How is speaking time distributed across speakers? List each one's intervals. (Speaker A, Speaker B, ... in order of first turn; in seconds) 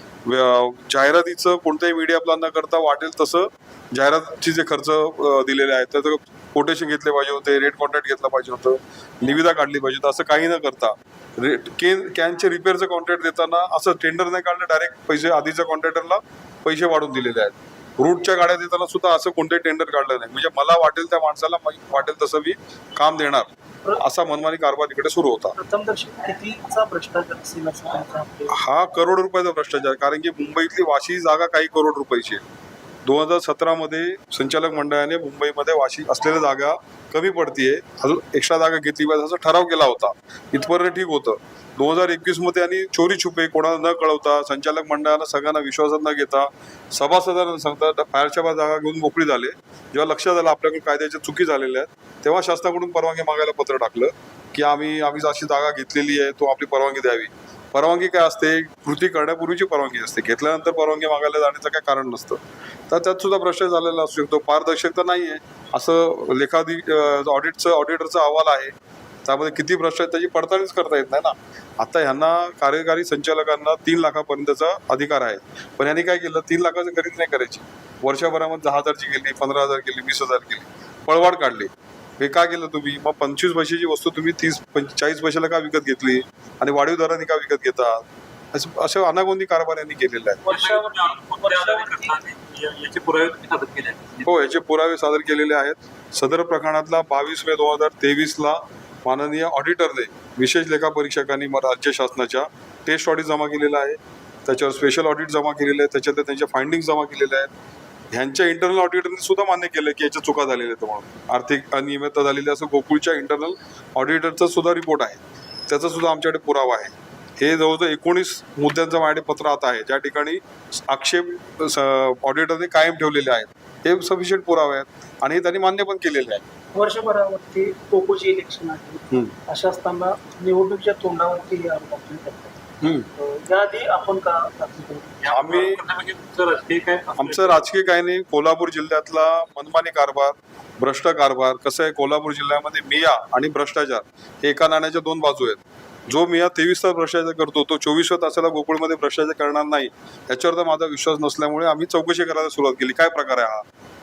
Speaker A: 0.2-25.6, 28.5-32.4, 33.0-90.4, 94.2-107.5, 108.1-126.4, 132.8-133.1, 135.3-135.8, 137.2-153.6
Speaker B: 25.6-28.6, 90.4-92.2, 126.7-132.6, 133.1-135.3
Speaker C: 90.5-94.4, 135.2-137.6